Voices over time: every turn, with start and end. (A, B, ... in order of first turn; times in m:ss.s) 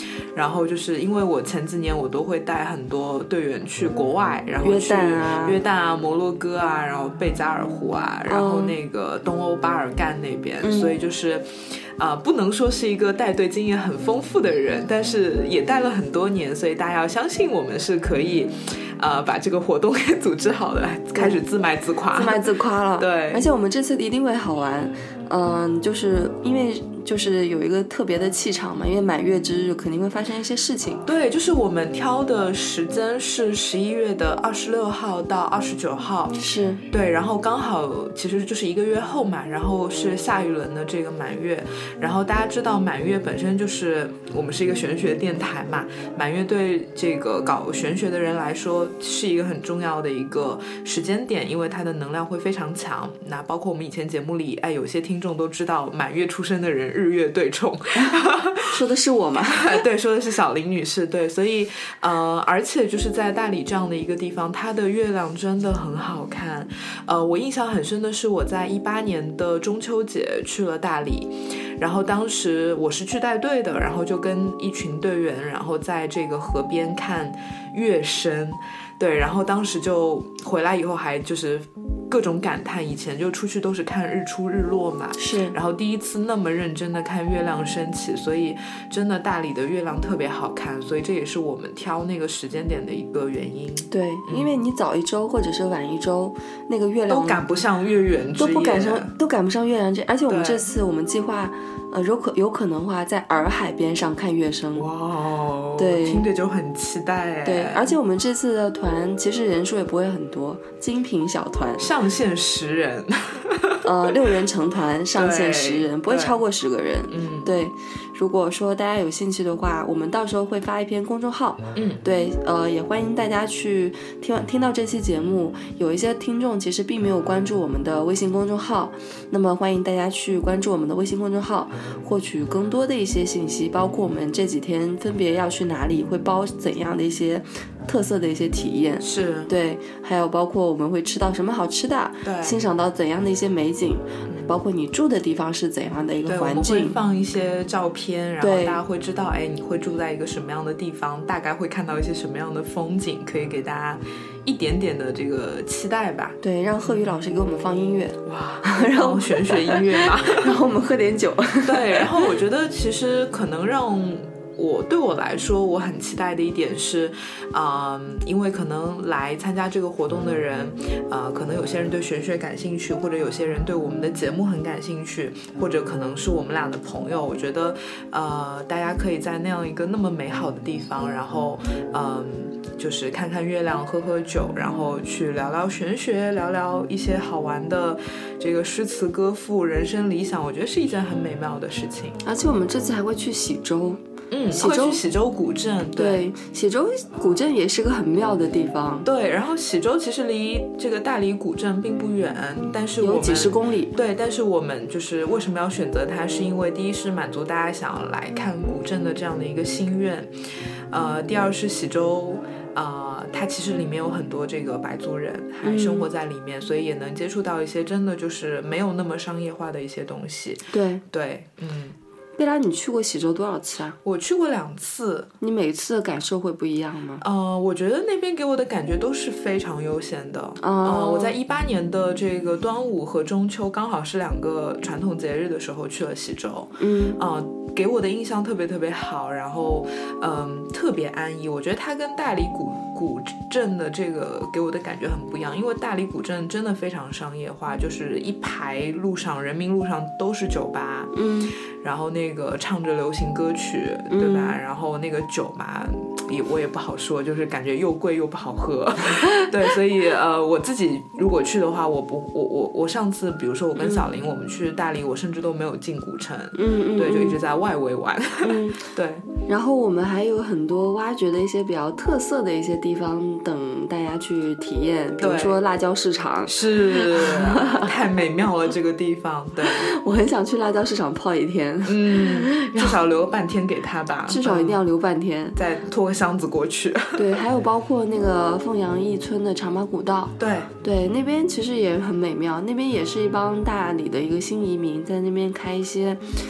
0:00.3-0:23.5 A
0:04.6-0:05.6 B
0:08.3-0:08.8 B
0:10.6-0:11.0 B
0:22.1-0:31.0 B
0:31.0-0:36.3 A
0:36.3-0:36.8 B
0:36.9-0:58.8 A
0:58.0-0:59.8 B
0:59.4-1:34.5 A
1:25.2-1:25.6 B
1:33.9-1:37.5 B
1:37.1-1:39.1 A
1:38.4-1:44.9 B
1:40.3-1:40.7 A
1:44.8-1:48.0 A
1:45.8-1:46.2 B
1:47.4-1:51.9 B
1:51.8-1:54.3 A
1:53.8-2:27.0 B
1:55.1-1:56.4 A
1:57.1-1:57.5 A
2:01.7-2:02.0 A
2:19.0-2:19.5 A
2:22.2-2:22.6 A
2:26.2-2:36.9 A
2:28.4-2:28.8 B
2:36.4-2:42.2 B
2:38.2-2:40.6 A
2:41.6-3:12.2 A
3:12.2-3:14.0 B
3:14.3-3:16.3 A
3:14.5-3:15.0 B
3:16.0-3:19.0 B
3:19.0-3:30.3 A
3:23.0-3:23.9 B
3:30.9-3:42.0 A
3:35.6-3:36.1 B
3:40.7-3:41.0 B
3:42.4-3:44.0 B
3:44.0-3:45.3 A
3:45.4-3:47.2 B
3:47.2-4:29.2 A
3:50.6-3:51.3 B
3:56.8-3:57.2 B
4:11.1-4:11.5 B
4:14.1-4:14.6 B
4:23.8-4:24.1 B
4:26.5-4:27.4 B
4:28.4-4:28.8 B
4:29.4-4:37.9 B
4:35.2-4:35.6 A
4:36.5-4:39.9 A
4:39.6-4:43.0 B
4:41.8-4:44.8 A
4:44.3-4:45.6 B
4:45.6-4:47.4 A
4:47.2-4:56.2 B
4:50.4-4:50.7 A